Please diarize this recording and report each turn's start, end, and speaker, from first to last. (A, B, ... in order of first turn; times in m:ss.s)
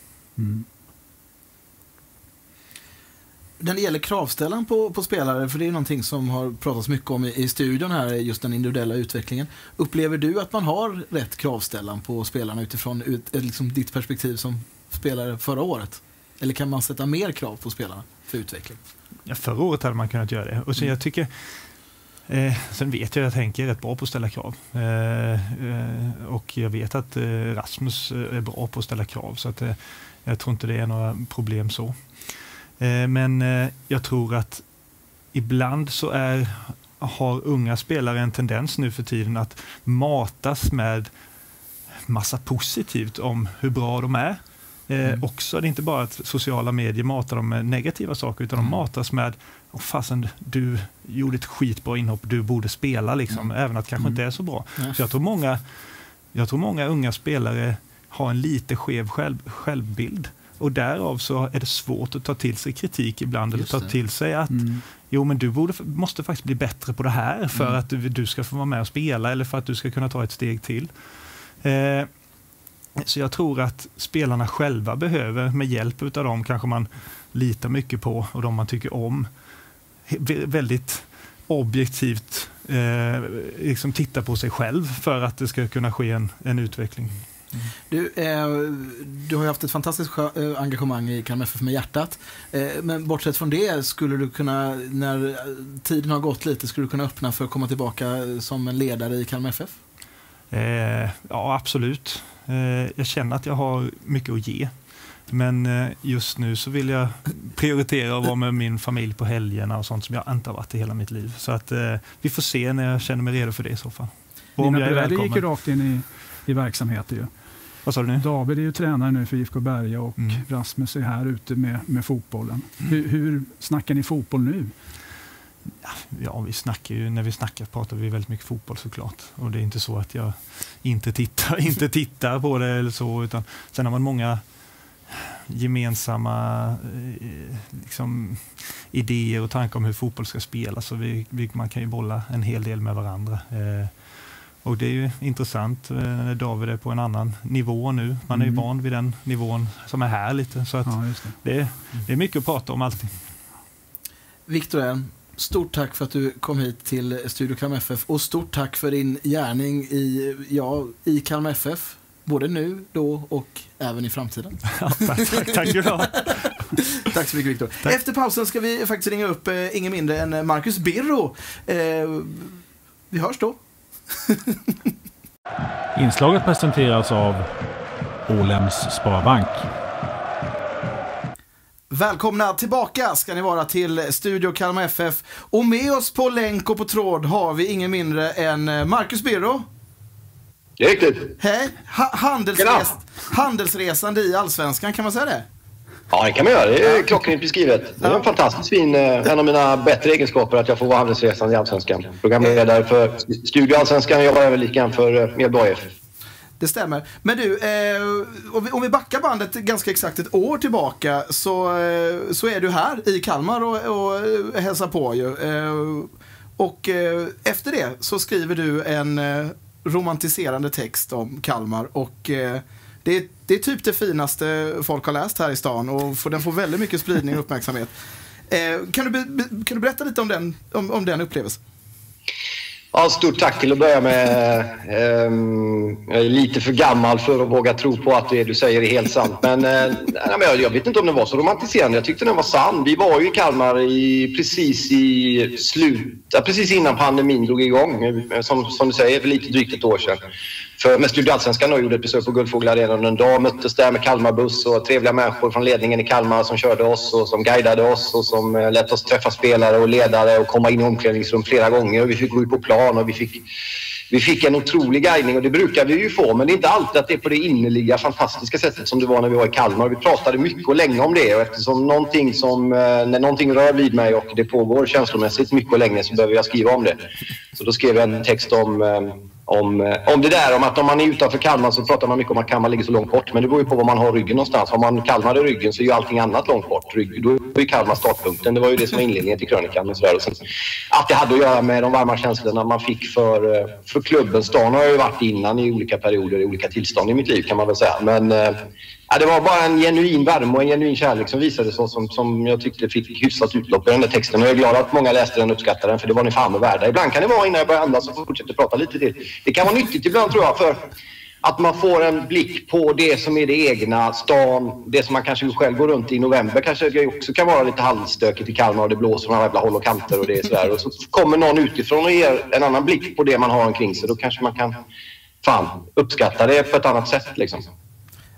0:00.4-0:00.6 A
0:03.6-0:18.8 B
0:19.2-0:34.7 C
0:35.3-0:41.1 C
0:42.0-1:12.1 C
1:03.5-1:03.9 B
1:04.5-1:04.8 A
1:13.0-1:19.3 C
1:20.1-1:27.7 C
1:27.9-1:39.8 B
1:40.5-1:55.5 C
1:54.6-1:57.3 A
1:57.8-1:58.3 C
1:58.2-2:04.7 A
2:00.2-2:00.4 C
2:05.8-2:14.4 C
2:15.0-2:33.2 C
2:28.3-2:28.6 A
2:30.8-2:31.4 A
2:34.5-2:46.3 B
2:44.8-2:46.9 C
2:47.0-2:54.9 B
2:56.0-2:57.5 D
2:58.3-2:59.7 D
3:01.9-3:09.6 B
3:10.8-3:11.3 E
3:11.4-3:15.4 B
3:12.6-3:12.8 E
3:16.1-3:25.9 E
3:18.0-3:18.3 B
3:26.6-3:47.9 B
3:48.5-3:51.6 B
3:52.9-4:10.2 E
4:10.8-4:23.4 E
4:24.1-4:37.0 E
4:37.6-4:50.4 E
4:50.9-4:58.6 E
4:59.1-5:10.8 E
5:11.4-5:24.8 E
5:25.4-5:27.7 E